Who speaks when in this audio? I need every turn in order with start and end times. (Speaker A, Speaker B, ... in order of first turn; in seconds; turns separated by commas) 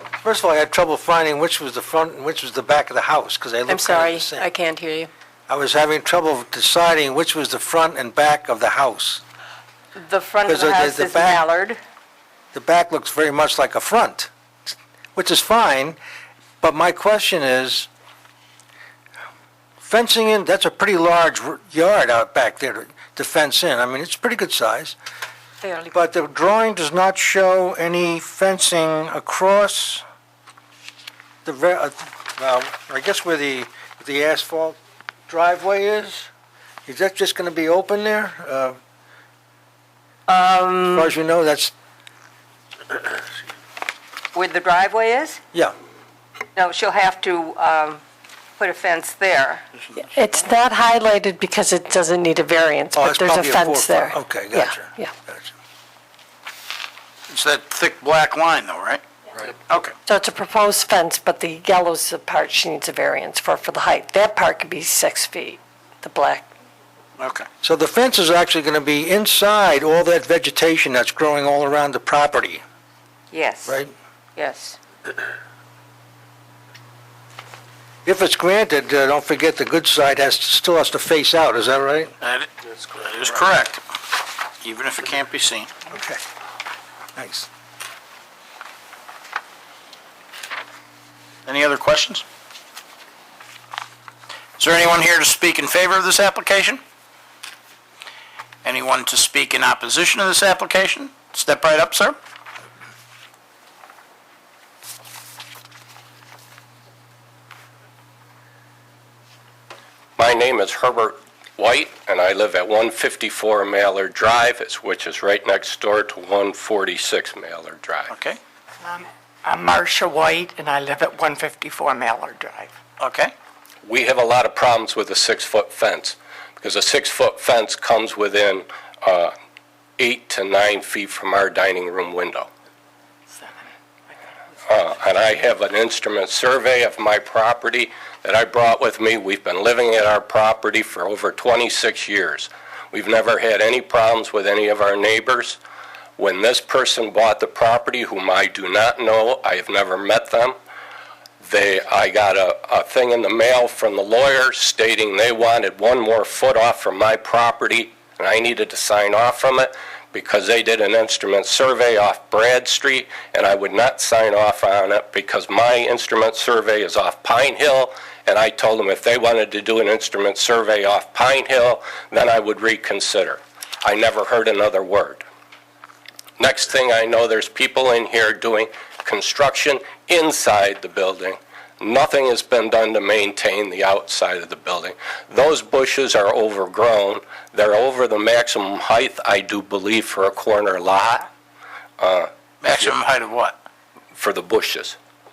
Speaker A: 0.2-4.5, Speaker B: 4.5-5.0, Speaker A: 5.5-9.2, Speaker B: 10.0-11.8, Speaker A: 10.4-11.4, Speaker A: 12.5-14.3, Speaker A: 15.2-16.0, Speaker A: 16.6-17.9, Speaker A: 19.8-25.0, Speaker A: 25.9-30.0, Speaker A: 31.4-34.8, Speaker A: 35.3-36.3, Speaker A: 36.9-38.8, Speaker B: 40.3-41.1, Speaker A: 40.9-41.7, Speaker B: 44.3-45.4, Speaker B: 46.5-48.0, Speaker B: 48.6-49.6, Speaker C: 50.0-55.1, Speaker A: 52.9-55.5, Speaker D: 57.3-59.0, Speaker D: 59.5-60.0, Speaker C: 60.0-66.5, Speaker D: 67.2-67.5, Speaker A: 67.6-72.6, Speaker B: 73.3-73.8, Speaker A: 73.7-73.9, Speaker B: 74.3-74.8, Speaker A: 78.0-82.1, Speaker D: 82.2-83.8, Speaker D: 84.6-85.7, Speaker A: 85.9-86.2, Speaker A: 87.2-87.5, Speaker D: 91.5-92.2, Speaker D: 94.6-96.8, Speaker D: 98.6-102.2, Speaker E: 110.2-118.1, Speaker D: 118.1-118.4, Speaker F: 118.8-122.7, Speaker D: 123.0-123.3, Speaker E: 123.8-129.3, Speaker E: 130.0-132.5, Speaker F: 133.3-133.7, Speaker E: 134.7-145.6, Speaker E: 146.2-150.6, Speaker E: 151.4-175.2, Speaker E: 176.4-191.3, Speaker E: 192.0-193.0, Speaker D: 192.6-193.6, Speaker E: 194.1-194.9